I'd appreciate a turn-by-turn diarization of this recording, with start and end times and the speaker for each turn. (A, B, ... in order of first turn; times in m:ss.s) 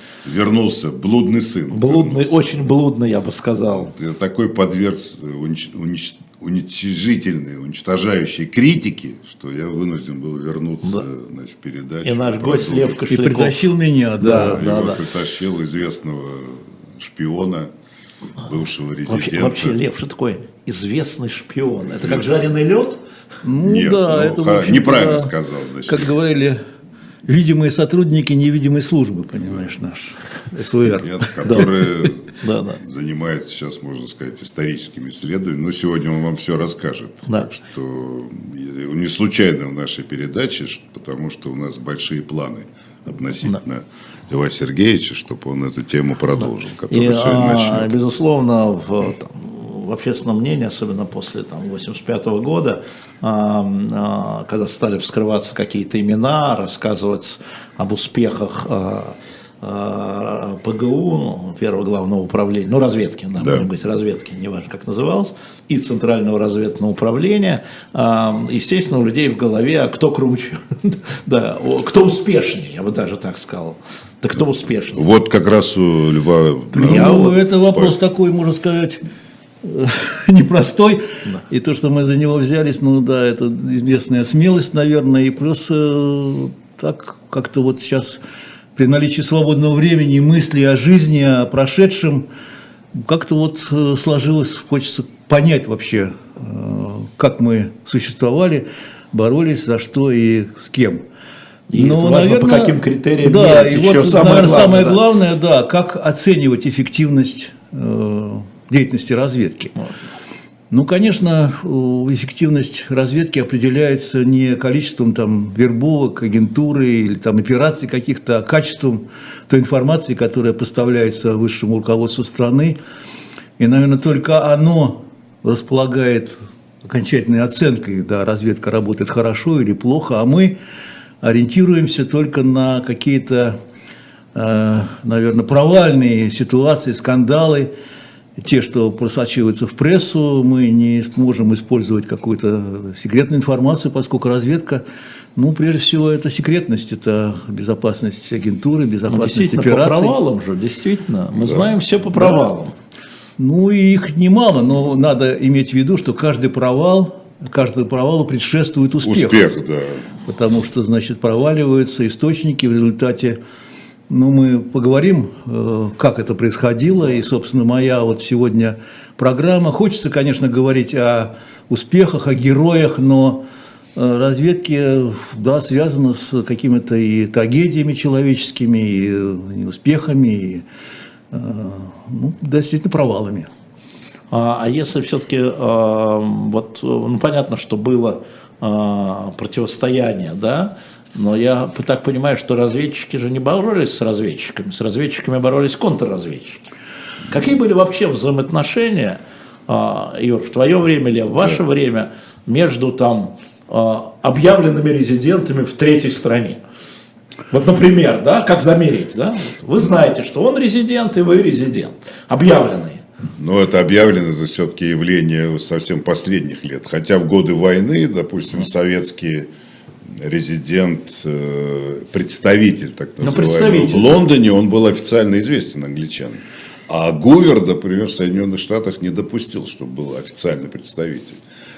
0:00.2-0:02.5 A
0:01.7-0:03.9 B
0:03.8-0:13.0 A
0:12.0-0:13.6 B
0:13.1-0:15.0 C
0:14.2-0:14.9 B
0:14.2-0:17.7 A
0:18.4-0:19.8 A
0:19.1-0:23.0 B
0:23.4-0:25.3 C
0:23.6-0:26.1 A
0:25.9-0:26.6 C
0:27.3-0:31.7 C
0:31.0-0:48.0 A
0:32.4-0:32.8 B
0:46.9-1:15.0 B
1:03.4-1:03.7 A
1:15.0-1:18.0 A
1:16.8-1:19.0 C
1:16.8-1:17.5 B
1:19.6-1:28.2 C
1:28.8-1:32.3 C
1:33.0-1:41.0 C
1:41.7-1:45.0 B
1:41.8-1:49.8 C
1:50.7-2:02.8 C
2:03.6-2:10.6 C
2:11.2-2:13.6 C
2:14.4-2:17.7 C
2:18.4-2:24.8 C
2:25.4-2:30.2 C
2:29.1-2:32.7 B
2:33.4-2:39.5 C
2:39.0-2:40.0 A
2:40.3-2:43.4 C
2:44.1-2:53.4 C
2:54.0-3:00.6 C
3:01.3-3:03.5 C
3:04.3-3:16.6 B
3:17.3-3:26.6 B
3:27.5-3:33.0 B
3:33.4-3:39.5 A
3:40.2-3:51.4 A
3:43.2-3:44.2 B